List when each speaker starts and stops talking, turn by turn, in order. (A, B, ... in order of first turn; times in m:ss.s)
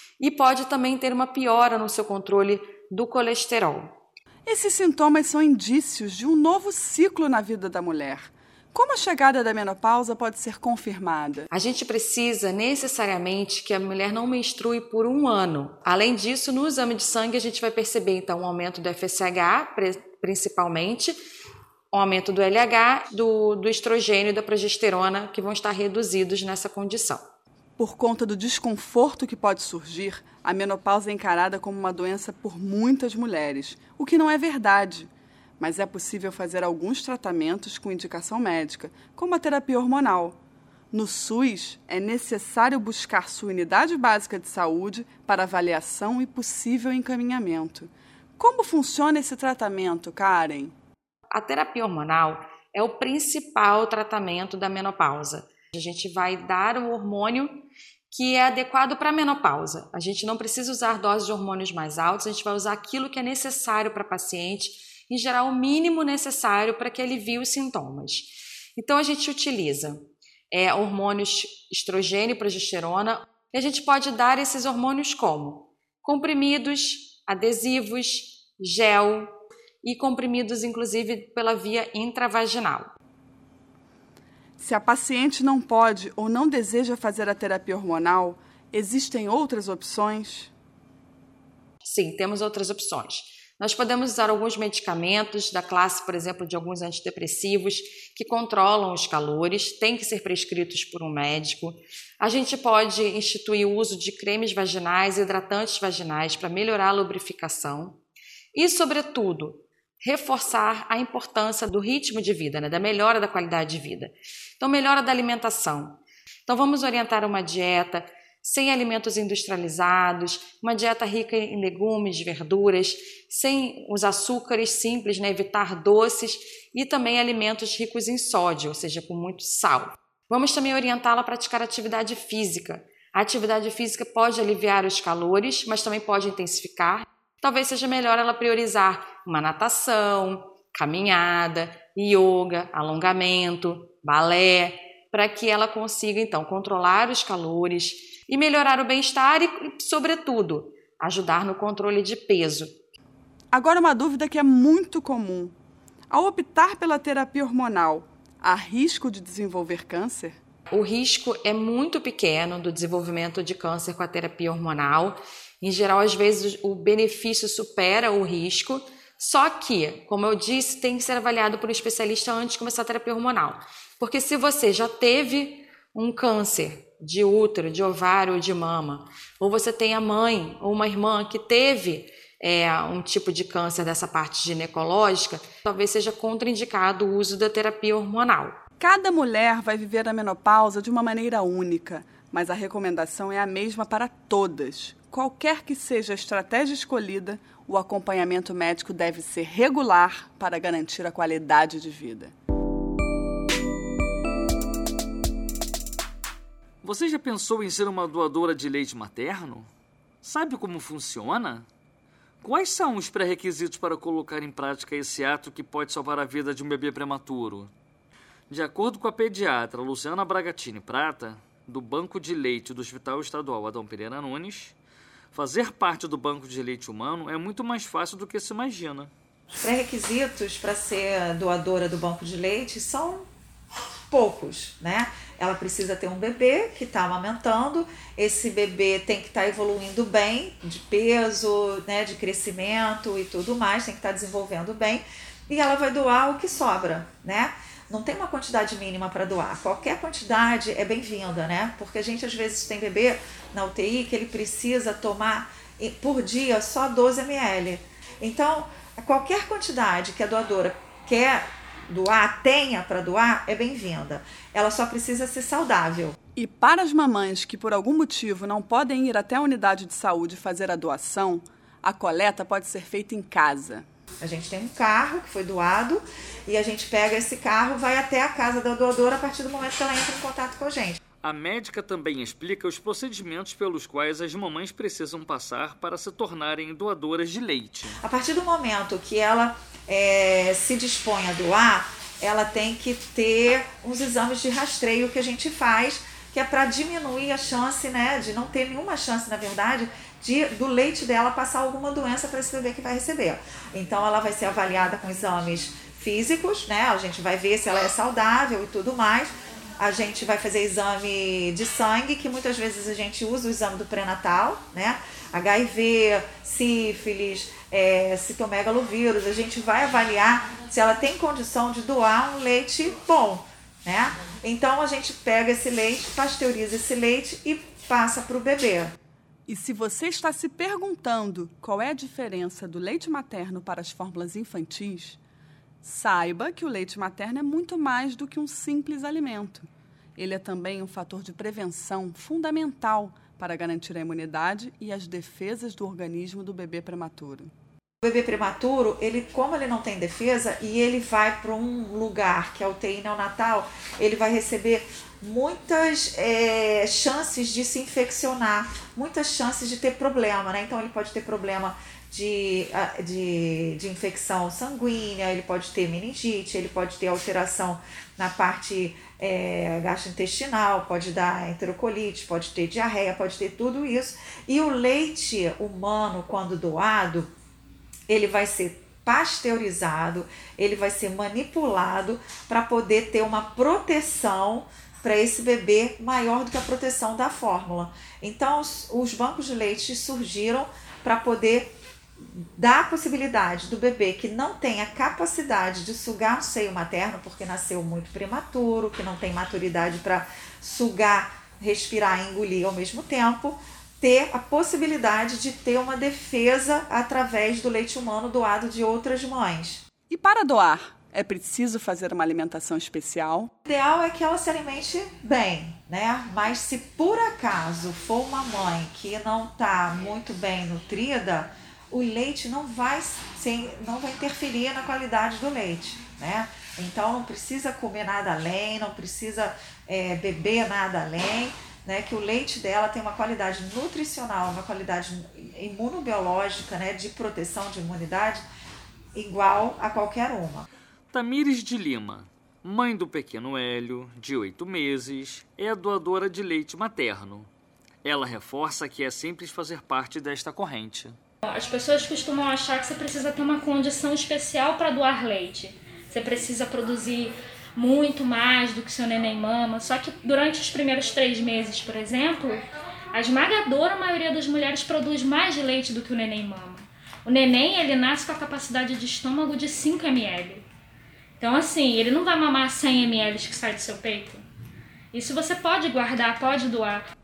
0:00.2-0:04.0 A
0:04.4-0:11.5 B
0:11.5-0:21.2 A
0:21.9-0:27.3 A
0:27.8-0:40.4 B
0:40.9-0:50.7 B
0:51.3-1:22.9 A
1:24.6-1:30.5 B
1:31.8-1:48.0 A
1:48.5-2:32.7 A
2:33.5-2:35.5 B
2:36.1-2:40.4 B
2:40.7-3:08.6 A
3:08.8-3:22.3 B
3:26.8-3:29.7 C
3:30.2-3:31.6 C
3:32.4-3:37.7 C
3:38.5-3:44.8 C
3:45.3-3:49.1 C
3:49.6-3:53.2 D
3:54.1-4:26.2 D
4:26.4-4:33.8 B
4:34.2-4:41.0 D
4:41.2-4:48.0 C
4:48.0-5:28.9 D
5:29.5-5:35.2 B
5:35.8-5:47.5 B
5:48.0-6:17.3 D
6:18.1-6:49.8 D
6:50.1-6:53.5 B
6:53.6-7:18.4 D
7:19.1-7:20.6 D
7:21.1-7:27.5 C
7:28.0-7:31.2 C
7:31.4-7:42.6 E
7:43.1-7:50.6 E
7:51.4-7:54.4 E
7:55.1-7:57.0 E